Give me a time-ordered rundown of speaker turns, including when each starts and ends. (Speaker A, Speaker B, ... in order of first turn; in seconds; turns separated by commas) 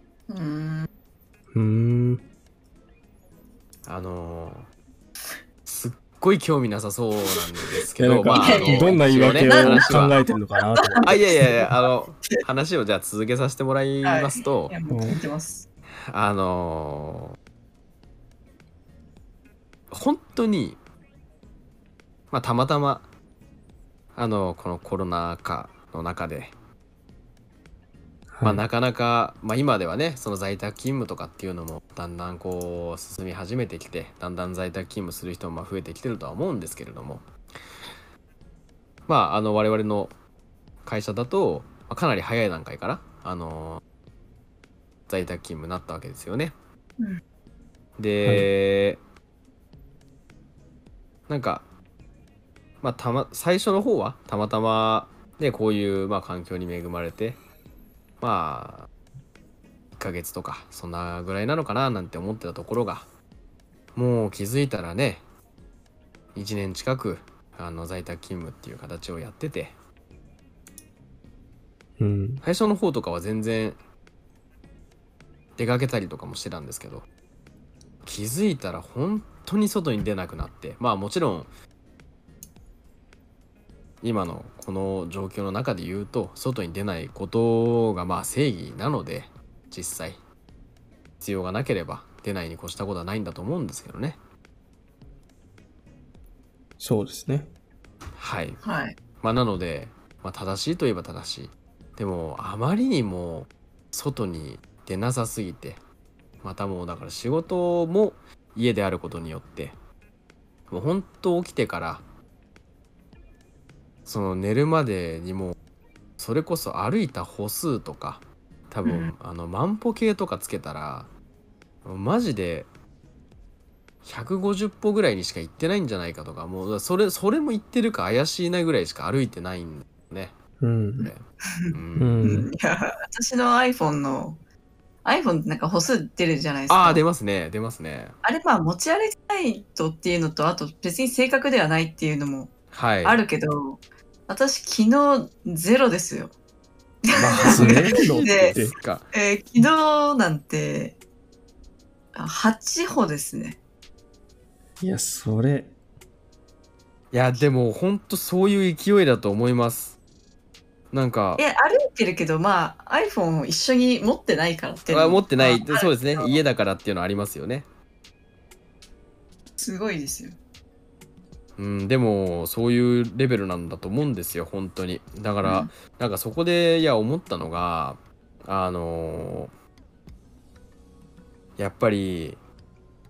Speaker A: 0.3-0.9, Speaker B: 1.5-2.2, Speaker C: 3.9-4.7, Speaker C: 5.7-10.2, Speaker B: 8.0-11.2, Speaker A: 8.3-10.1, Speaker A: 10.6-11.5, Speaker C: 11.0-14.7, Speaker A: 14.0-15.6, Speaker B: 14.9-15.2, Speaker C: 16.1-17.3, Speaker C: 19.9-20.8, Speaker C: 22.3-23.1, Speaker C: 24.1-26.5, Speaker B: 28.3-28.6, Speaker C: 28.4-37.2, Speaker C: 39.1-40.1, Speaker C: 40.8-43.8, Speaker C: 45.1-46.5, Speaker C: 48.0-49.0, Speaker C: 51.3-51.7, Speaker C: 52.8-57.4, Speaker C: 58.2-58.9, Speaker C: 59.9-63.1, Speaker C: 63.9-65.2, Speaker C: 66.3-69.8, Speaker B: 72.0-72.4, Speaker C: 72.4-73.8, Speaker C: 75.6-77.1, Speaker C: 78.0-81.5, Speaker C: 84.0-90.2, Speaker C: 91.2-94.2, Speaker B: 96.8-97.5, Speaker C: 98.2-98.6, Speaker A: 98.6-99.0, Speaker C: 99.2-105.8, Speaker C: 106.4-109.8, Speaker C: 110.7-112.0, Speaker C: 114.0-115.6, Speaker C: 116.2-121.1, Speaker A: 118.8-119.1, Speaker C: 121.8-122.7, Speaker C: 124.0-130.4, Speaker B: 130.6-131.1, Speaker C: 131.0-132.4, Speaker A: 131.6-134.4, Speaker B: 132.0-132.5, Speaker A: 135.0-137.0, Speaker C: 136.7-138.1, Speaker A: 138.2-142.5, Speaker C: 142.7-143.2, Speaker A: 143.0-146.3, Speaker A: 147.1-151.0, Speaker C: 147.1-149.1, Speaker B: 147.4-148.7, Speaker A: 152.1-153.6, Speaker B: 154.8-155.7, Speaker C: 157.1-160.0, Speaker C: 160.9-161.4, Speaker A: 161.4-166.4, Speaker C: 164.9-167.7, Speaker A: 169.6-170.4, Speaker C: 171.6-179.5, Speaker A: 175.4-175.7, Speaker C: 181.6-182.4